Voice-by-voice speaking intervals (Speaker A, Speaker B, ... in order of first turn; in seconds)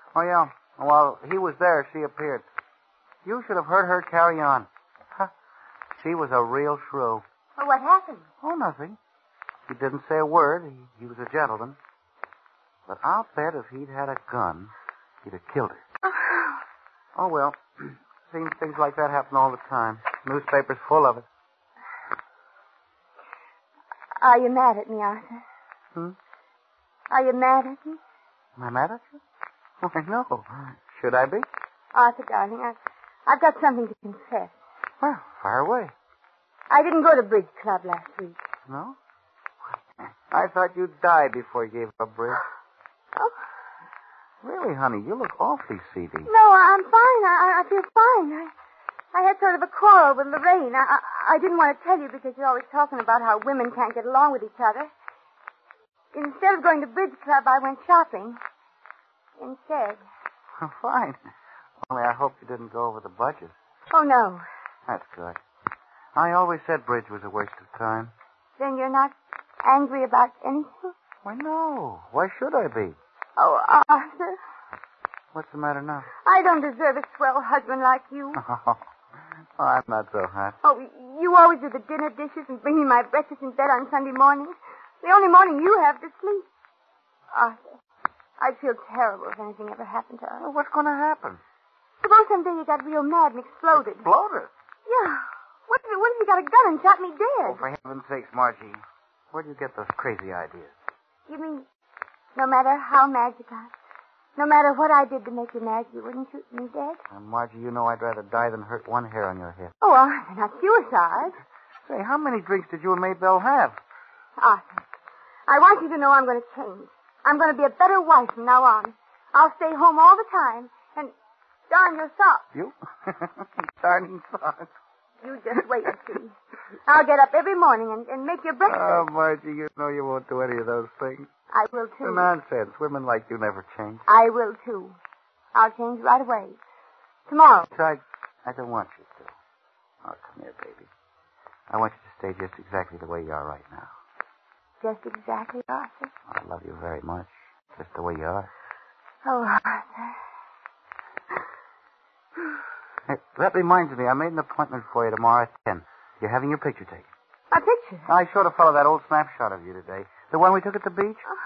Speaker A: 0.1-2.5, 3.2-5.3, 6.0-7.2, 8.4-9.0, 9.7-11.8, 12.9-14.7, 15.2-15.8, 17.1-21.3, 28.6-29.2, 29.8-31.5, 35.0-35.9, 38.7-39.0, 40.0-42.4, 44.4-46.3, 60.6-61.2, 61.8-63.5, 64.9-65.4, 66.2-68.1, 71.2-73.0, 75.3-76.1, 78.3-78.8, 79.6-80.6, 90.4-91.4, 93.8-94.5, 97.5-100.7, 107.1-109.7, 111.9-113.8, 122.5-124.7, 128.7-131.3, 132.0-134.0, 137.7-139.3, 140.0-140.9, 141.7-143.9, 146.3-148.5, 153.1-157.1, 158.1-161.2
Speaker B: 7.6-8.2, 24.2-25.4, 27.1-28.0, 31.9-34.5, 36.7-38.4, 46.3-48.5, 49.1-54.9, 56.1-58.4, 59.4-60.0, 63.9-64.4, 68.6-70.9, 73.4-74.4, 76.2-78.4, 80.6-86.5, 87.3-87.7, 88.4-90.5, 92.0-94.0, 94.9-97.6, 101.3-101.7, 102.3-103.7, 104.4-107.0, 109.8-111.3, 114.4-114.8, 115.5-121.1, 121.7-122.5, 125.2-126.3, 126.9-129.1, 131.5-132.3, 134.1-134.9, 135.6-136.6, 137.3-137.7, 144.8-146.1, 149.2-150.2, 157.5-158.1